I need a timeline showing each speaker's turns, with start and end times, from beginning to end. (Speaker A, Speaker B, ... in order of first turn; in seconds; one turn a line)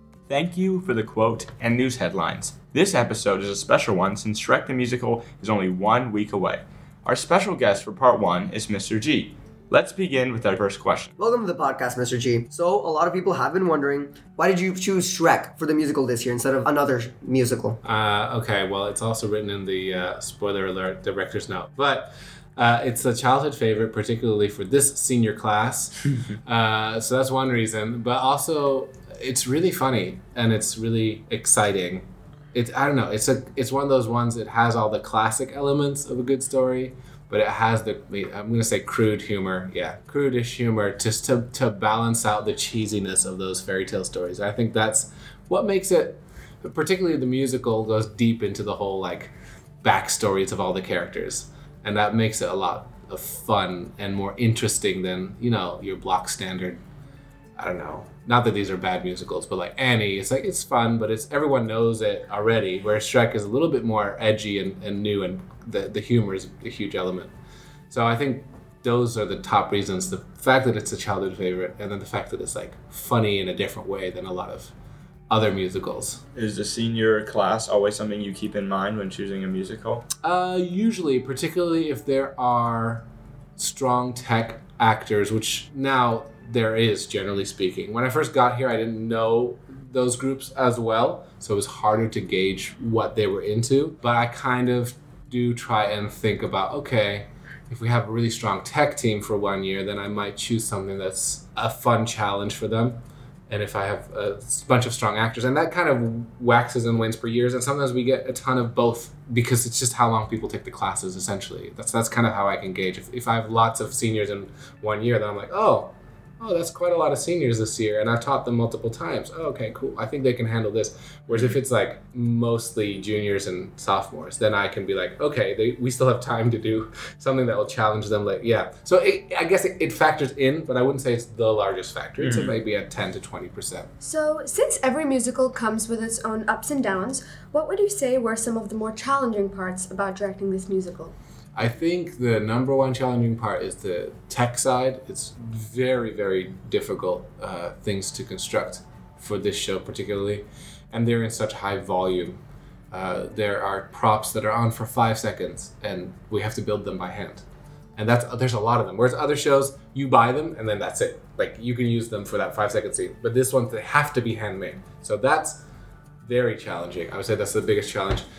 Speaker A: 0.3-11.1
Speaker B: 11.2-17.8
Speaker C: 17.8-49.3
Speaker C: 49.8-56.8
Speaker C: 57.6-67.3
Speaker C: 67.9-74.7
Speaker C: 75.3-76.2
Speaker A: 76.3-80.1
Speaker C: 80.2-83.0
Speaker C: 83.6-103.0
Speaker C: 103.5-133.9
Speaker A: 132.2-132.5
Speaker D: 134.0-141.1
Speaker C: 141.6-152.4
Speaker C: 152.9-157.4
Speaker C: 158.0-165.6
Speaker C: 166.2-168.2